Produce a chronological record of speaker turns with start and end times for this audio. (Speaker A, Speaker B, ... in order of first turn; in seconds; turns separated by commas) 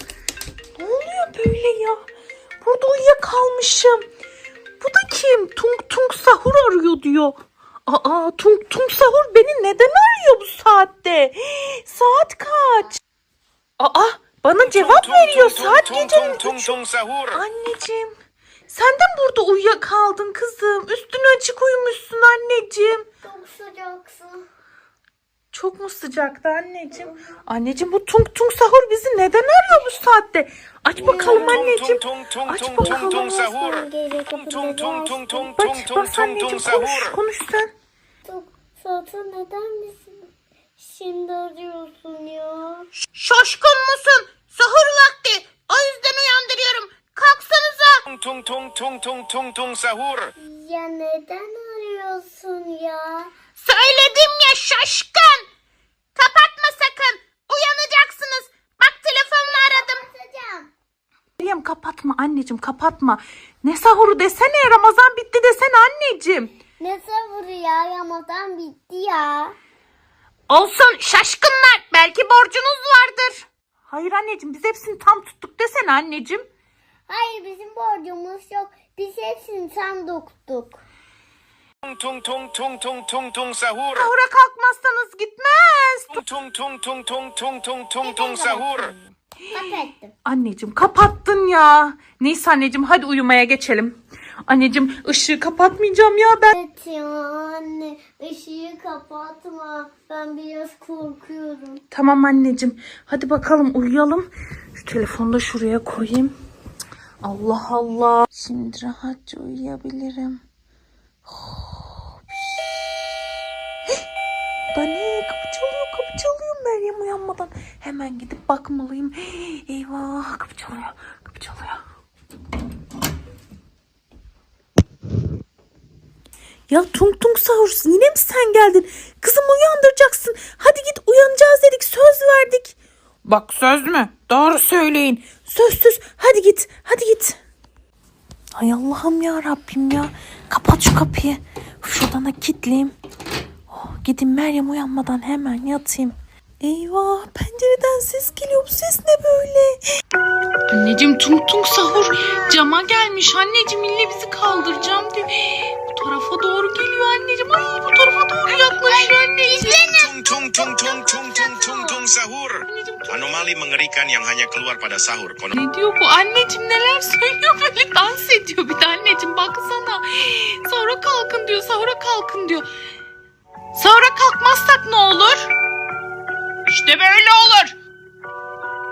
Speaker A: 0.8-2.0, Speaker A: 2.6-4.0, Speaker A: 4.8-13.0, Speaker A: 13.8-16.8, Speaker B: 14.6-17.4, Speaker A: 17.3-18.1, Speaker A: 18.7-23.1, Speaker C: 23.2-24.4, Speaker A: 25.5-33.3, Speaker C: 30.9-31.7, Speaker B: 31.1-37.2, Speaker C: 33.0-35.4, Speaker A: 35.3-37.7, Speaker C: 38.2-40.3, Speaker C: 40.8-42.9, Speaker A: 43.0-48.0, Speaker B: 48.1-50.3, Speaker C: 50.4-53.3, Speaker A: 53.6-55.4, Speaker A: 56.2-60.0, Speaker C: 59.4-60.7, Speaker A: 61.4-66.5, Speaker C: 66.8-69.5, Speaker A: 70.5-76.4, Speaker C: 77.1-80.8, Speaker B: 81.8-84.1, Speaker A: 83.9-86.2, Speaker B: 86.1-88.9, Speaker C: 88.0-88.9, Speaker A: 89.5-96.6, Speaker C: 89.5-90.1, Speaker C: 96.5-101.8, Speaker A: 101.9-106.3, Speaker A: 107.2-110.4, Speaker A: 111.3-112.9, Speaker A: 114.7-121.8, Speaker A: 126.7-137.4, Speaker A: 138.5-142.9, Speaker A: 143.7-149.8, Speaker A: 150.7-159.8, Speaker C: 158.4-162.0, Speaker B: 159.6-165.6, Speaker A: 162.7-163.4, Speaker A: 165.5-172.7, Speaker A: 173.7-175.5, Speaker A: 176.7-177.8